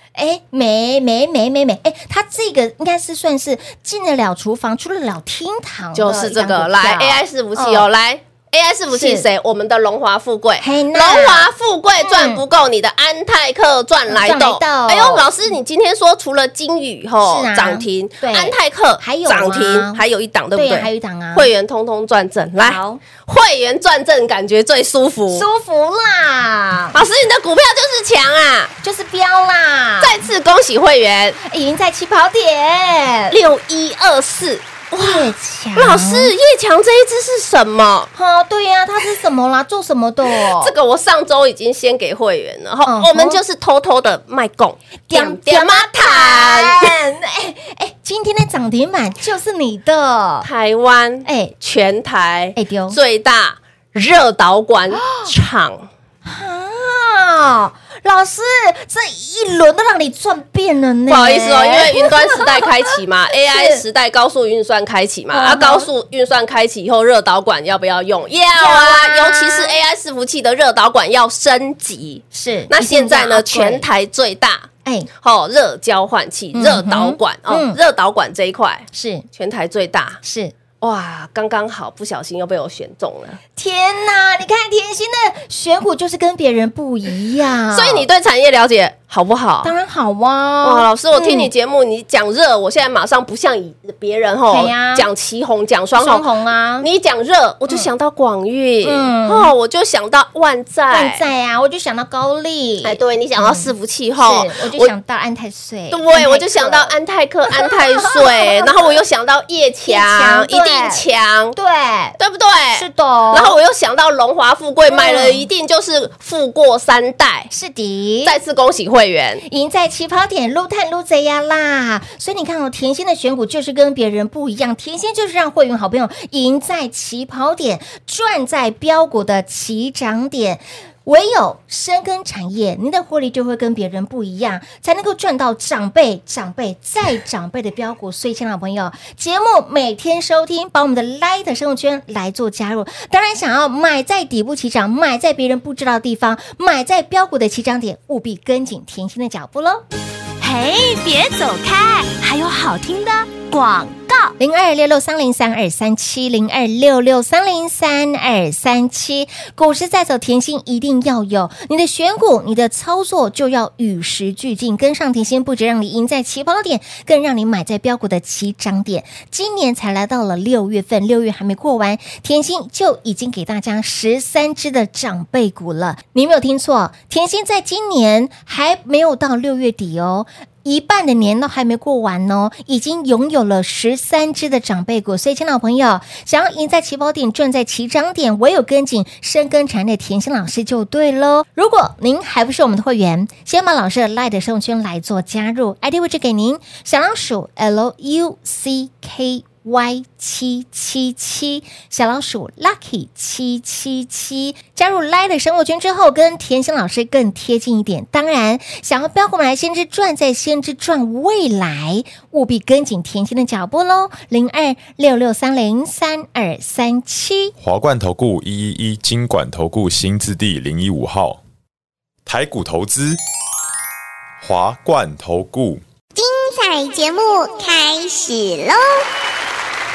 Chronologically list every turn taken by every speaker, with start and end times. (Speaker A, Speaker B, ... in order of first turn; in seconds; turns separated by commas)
Speaker A: 0.2-7.9, Speaker B: 6.0-25.5, Speaker A: 8.9-9.3, Speaker A: 10.6-11.5, Speaker A: 12.0-12.4, Speaker A: 14.1-15.3, Speaker A: 17.2-20.0, Speaker A: 20.6-21.5, Speaker A: 22.6-23.0, Speaker A: 25.3-27.0, Speaker B: 26.9-28.7, Speaker A: 28.8-30.3, Speaker B: 30.0-31.4, Speaker A: 31.4-33.4, Speaker B: 33.3-38.1, Speaker A: 35.0-36.3, Speaker A: 38.1-40.7, Speaker B: 40.3-46.9, Speaker A: 42.9-43.4, Speaker A: 45.1-50.5, Speaker B: 50.4-55.9, Speaker A: 51.2-51.5, Speaker A: 52.6-53.0, Speaker A: 55.0-55.3, Speaker A: 56.2-63.8, Speaker B: 61.1-74.7, Speaker A: 65.3-65.9, Speaker A: 68.6-69.8, Speaker A: 72.3-73.8, Speaker B: 75.2-80.2, Speaker A: 76.5-77.8, Speaker A: 78.9-79.2, Speaker A: 80.2-80.5, Speaker B: 80.8-83.4, Speaker A: 83.6-88.1, Speaker B: 87.7-89.7, Speaker A: 89.6-91.5, Speaker B: 90.6-96.3, Speaker A: 94.5-95.1, Speaker A: 96.0-96.9, Speaker B: 96.8-101.2, Speaker A: 98.8-99.5, Speaker A: 100.9-106.9, Speaker B: 102.8-104.9, Speaker B: 105.9-111.6, Speaker A: 107.5-108.9, Speaker A: 109.9-111.0, Speaker A: 111.5-112.2, Speaker B: 112.2-117.5, Speaker A: 112.8-113.5, Speaker A: 114.9-115.5, Speaker A: 117.5-118.3, Speaker B: 118.2-119.4, Speaker A: 119.5-149.8, Speaker C: 150.4-154.3, Speaker A: 154.4-217.5, Speaker D: 217.6-221.4, Speaker D: 222.3-223.2, Speaker D: 224.4-225.8, Speaker E: 226.2-229.0